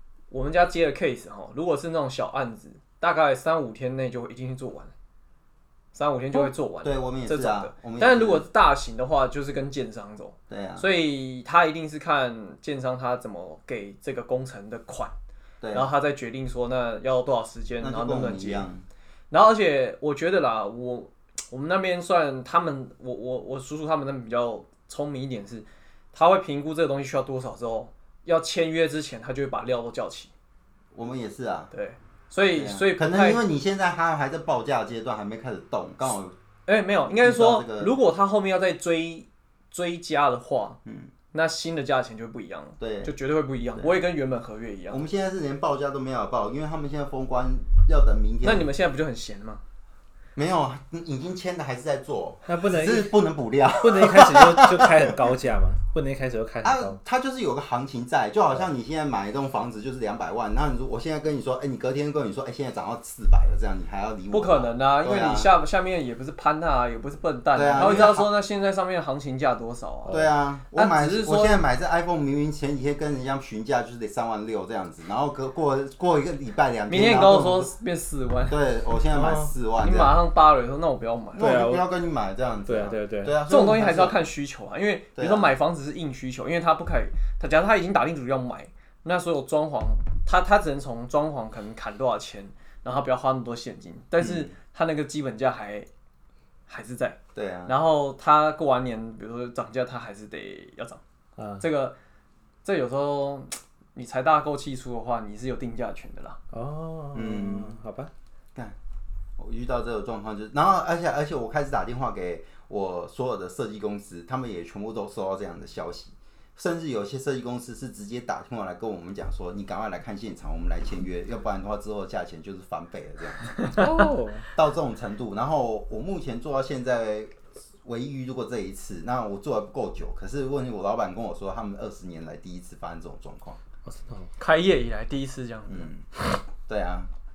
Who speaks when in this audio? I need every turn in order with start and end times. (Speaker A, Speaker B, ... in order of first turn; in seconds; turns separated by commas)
Speaker A: 0.3-4.9, Speaker A: 5.9-15.1, Speaker B: 6.3-8.4, Speaker B: 10.5-10.9, Speaker B: 15.6-15.9, Speaker A: 15.7-18.6, Speaker B: 17.8-18.8, Speaker A: 19.3-30.3, Speaker B: 30.9-31.7, Speaker A: 31.7-33.4, Speaker B: 32.5-36.4, Speaker A: 36.6-40.8, Speaker B: 37.2-37.9, Speaker B: 40.8-41.1, Speaker A: 41.3-45.0, Speaker B: 42.8-43.1, Speaker B: 44.9-48.7, Speaker A: 48.4-49.6, Speaker B: 50.4-55.2, Speaker C: 52.5-53.2, Speaker C: 53.8-57.0, Speaker B: 56.6-65.5, Speaker A: 64.3-70.2, Speaker B: 67.5-68.3, Speaker B: 70.1-77.7, Speaker A: 70.7-71.6, Speaker A: 76.9-78.6, Speaker B: 78.5-80.2, Speaker C: 79.1-79.5, Speaker A: 79.8-81.5, Speaker B: 81.3-84.2, Speaker C: 81.4-81.9, Speaker C: 82.7-83.4, Speaker A: 83.5-95.9, Speaker B: 85.2-85.5, Speaker B: 94.2-94.5, Speaker A: 96.7-101.0, Speaker B: 97.3-97.7, Speaker C: 101.4-101.6, Speaker A: 101.6-101.9, Speaker A: 102.6-106.4, Speaker C: 106.5-108.1, Speaker B: 107.1-107.8, Speaker B: 109.4-123.7, Speaker C: 123.7-124.5, Speaker B: 124.5-133.6, Speaker C: 133.8-134.3, Speaker A: 134.4-135.9, Speaker B: 135.7-136.1, Speaker B: 136.6-137.1